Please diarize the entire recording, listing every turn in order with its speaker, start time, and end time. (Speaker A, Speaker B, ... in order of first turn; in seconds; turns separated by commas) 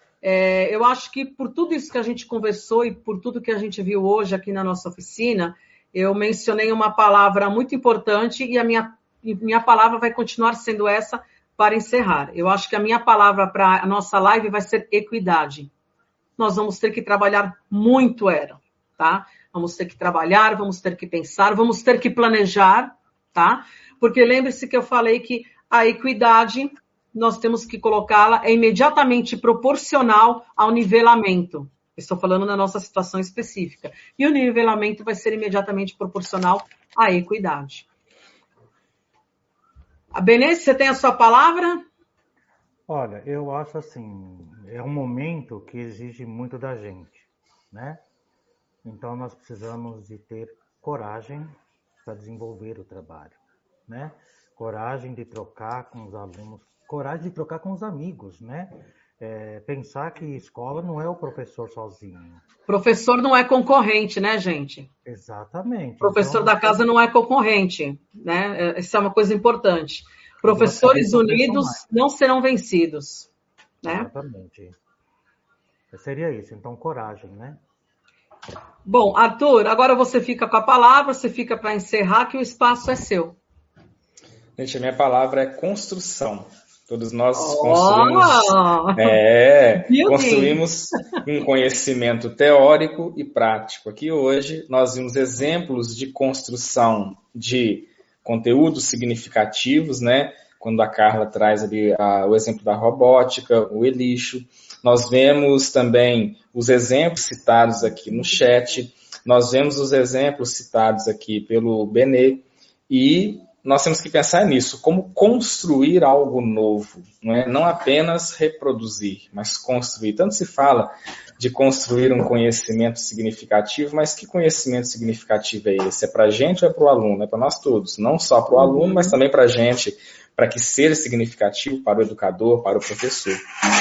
Speaker A: 0.2-15.7, Speaker A: 16.4-37.9, Speaker A: 40.1-41.8, Speaker B: 42.9-48.0, Speaker B: 48.8-62.4, Speaker A: 62.7-64.9, Speaker B: 65.0-66.8, Speaker A: 66.0-73.3, Speaker B: 70.5-71.8, Speaker A: 73.8-74.1, Speaker B: 73.8-74.8, Speaker B: 75.9-77.6, Speaker A: 78.9-83.4, Speaker C: 84.6-133.4, Speaker A: 87.3-89.2, Speaker A: 89.8-90.6, Speaker A: 128.5-129.2